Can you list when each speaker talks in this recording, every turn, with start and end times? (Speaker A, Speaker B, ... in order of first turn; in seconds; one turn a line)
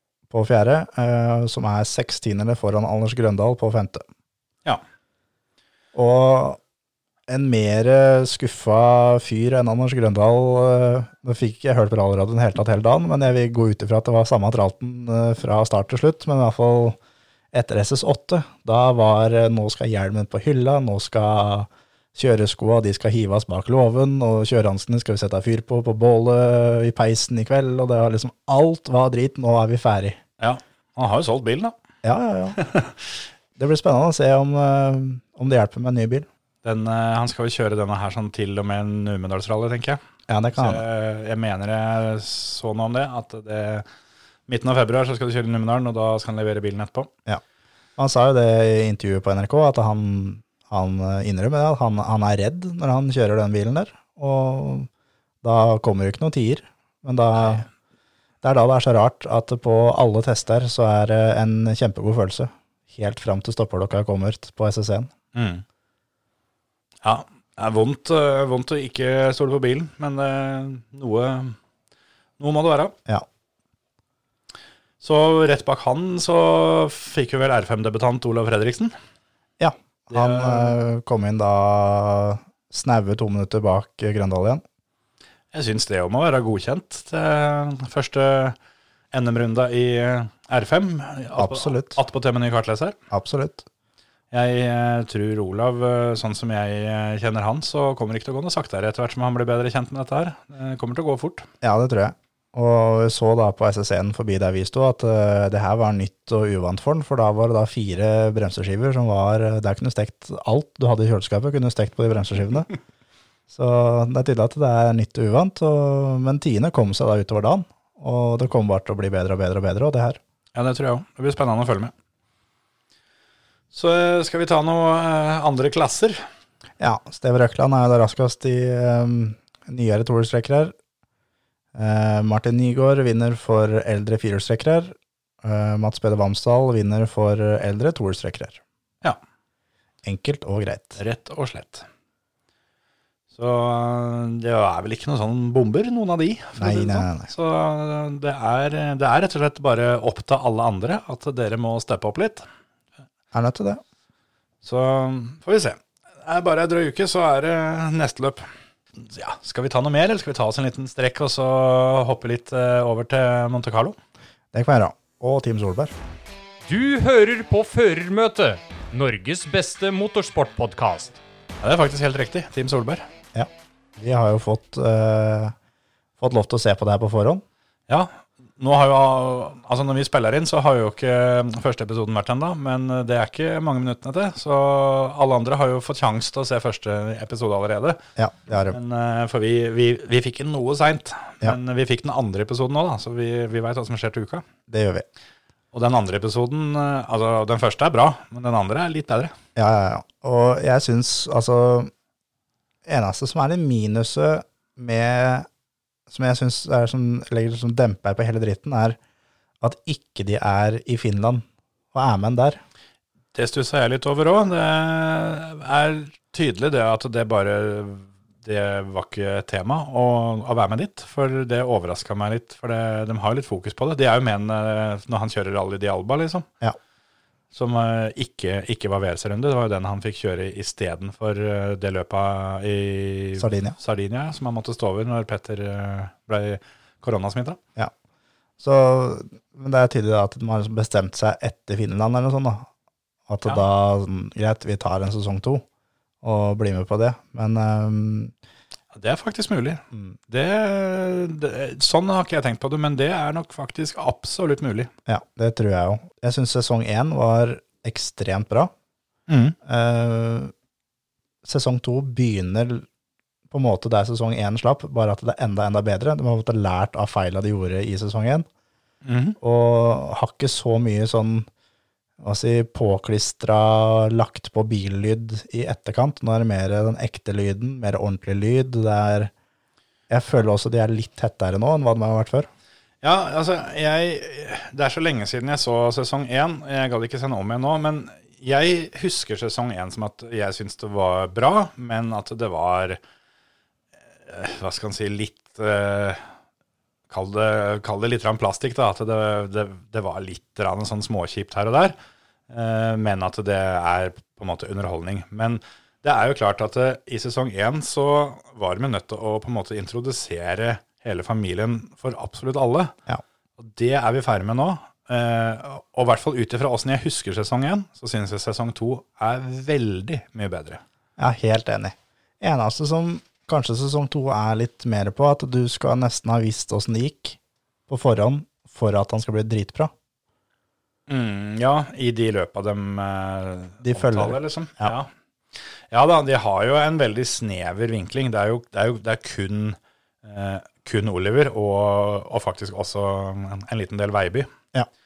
Speaker A: 0.3-4.0
Speaker A: 5.9-6.6
Speaker A: 7.3-17.0
Speaker A: 17.5-30.2
Speaker B: 30.4-31.7
Speaker A: 32.0-32.6
Speaker B: 32.6-32.9
Speaker A: 33.6-36.3
Speaker B: 36.6-40.0
Speaker A: 40.3-40.8
Speaker B: 40.5-43.8
Speaker B: 44.5-47.1
Speaker A: 48.0-54.9
Speaker A: 55.4-57.6
Speaker A: 58.4-65.1
Speaker B: 65.3-65.6
Speaker B: 67.0-71.5
Speaker B: 72.4-72.9
Speaker B: 75.0-78.9
Speaker A: 79.6-84.6
Speaker B: 80.1-80.7
Speaker B: 85.5-88.5
Speaker B: 89.1-93.0
Speaker A: 91.4-92.0
Speaker A: 93.1-93.6
Speaker B: 94.3-101.5
Speaker A: 101.6-112.7
Speaker A: 113.5-120.2
Speaker B: 120.5-121.9
Speaker B: 123.7-126.2
Speaker A: 126.8-130.7
Speaker A: 131.7-138.6
Speaker A: 140.0-141.0
Speaker B: 141.0-141.8
Speaker B: 143.3-152.4
Speaker A: 146.6-147.3
Speaker A: 153.3-153.8
Speaker B: 154.6-158.4
Speaker B: 159.0-163.9
Speaker A: 164.5-165.9
Speaker C: 166.6-171.2
Speaker B: 171.6-173.1
Speaker A: 173.3-175.5
Speaker A: 176.2-177.4
Speaker B: 177.9-188.0
Speaker A: 188.2-188.8
Speaker B: 188.7-194.4
Speaker A: 194.7-195.0
Speaker B: 195.7-199.3
Speaker A: 199.6-201.9
Speaker A: 202.8-205.5
Speaker A: 206.1-209.0
Speaker A: 209.6-212.6
Speaker B: 213.3-226.4
Speaker B: 227.5-237.6
Speaker A: 233.4-233.8
Speaker A: 238.6-242.7
Speaker A: 243.3-245.6
Speaker A: 246.2-248.3
Speaker B: 248.9-254.9
Speaker A: 255.1-258.7
Speaker B: 259.3-259.6
Speaker A: 259.6-260.5
Speaker A: 261.4-262.9
Speaker A: 263.5-268.4
Speaker B: 269.0-269.4
Speaker A: 269.4-271.5
Speaker A: 272.2-279.3
Speaker A: 280.1-282.5
Speaker B: 283.0-293.0
Speaker B: 294.3-296.2
Speaker B: 297.1-301.9
Speaker B: 302.5-312.9
Speaker B: 313.6-320.8
Speaker A: 321.2-329.9
Speaker B: 331.1-335.1
Speaker A: 333.8-334.9
Speaker B: 335.9-344.5